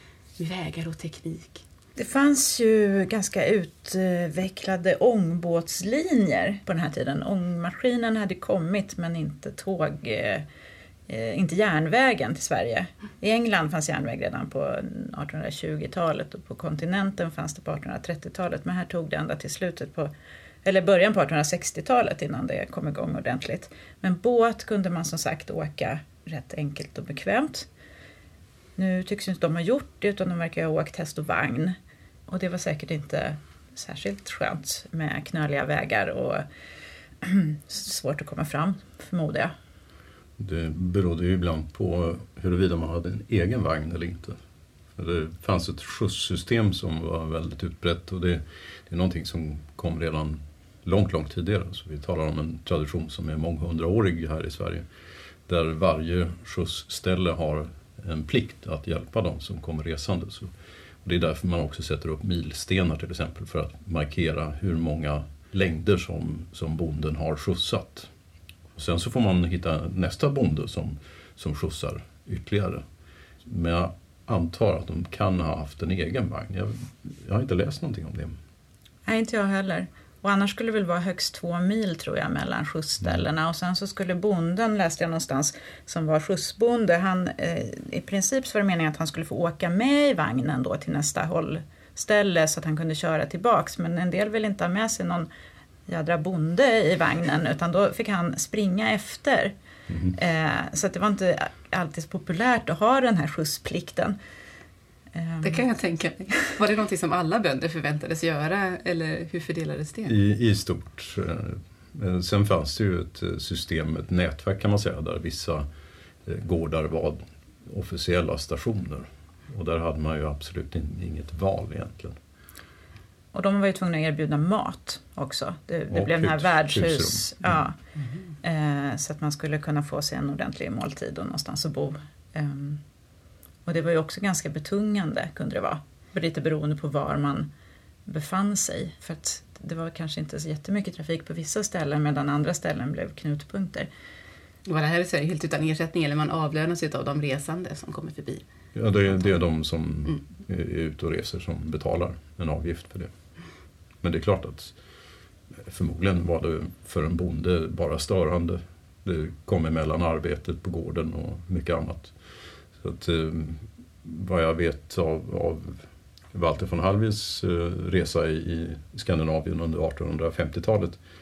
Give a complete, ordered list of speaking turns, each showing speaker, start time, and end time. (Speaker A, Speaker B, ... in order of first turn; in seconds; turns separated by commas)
Speaker A: 0.4-1.6, Speaker B: 2.0-10.4, Speaker B: 11.1-20.1, Speaker B: 20.6-27.7, Speaker B: 28.8-31.8, Speaker B: 32.3-36.5, Speaker B: 37.2-39.5, Speaker C: 40.4-44.4, Speaker C: 45.0-54.9, Speaker C: 55.5-60.5, Speaker C: 61.0-68.1, Speaker C: 68.8-72.8, Speaker C: 73.5-78.3, Speaker B: 79.1-95.3, Speaker B: 95.9-99.5, Speaker B: 100.1-104.2, Speaker B: 105.1-105.6, Speaker A: 105.4-110.2, Speaker C: 110.1-115.7, Speaker C: 116.3-122.2, Speaker B: 123.3-127.8, Speaker C: 125.9-127.6, Speaker B: 128.4-132.8, Speaker B: 133.7-137.5, Speaker B: 138.1-143.9, Speaker A: 144.7-148.4, Speaker C: 148.8-153.1, Speaker C: 154.0-154.8, Speaker C: 155.6-162.2, Speaker C: 162.8-171.0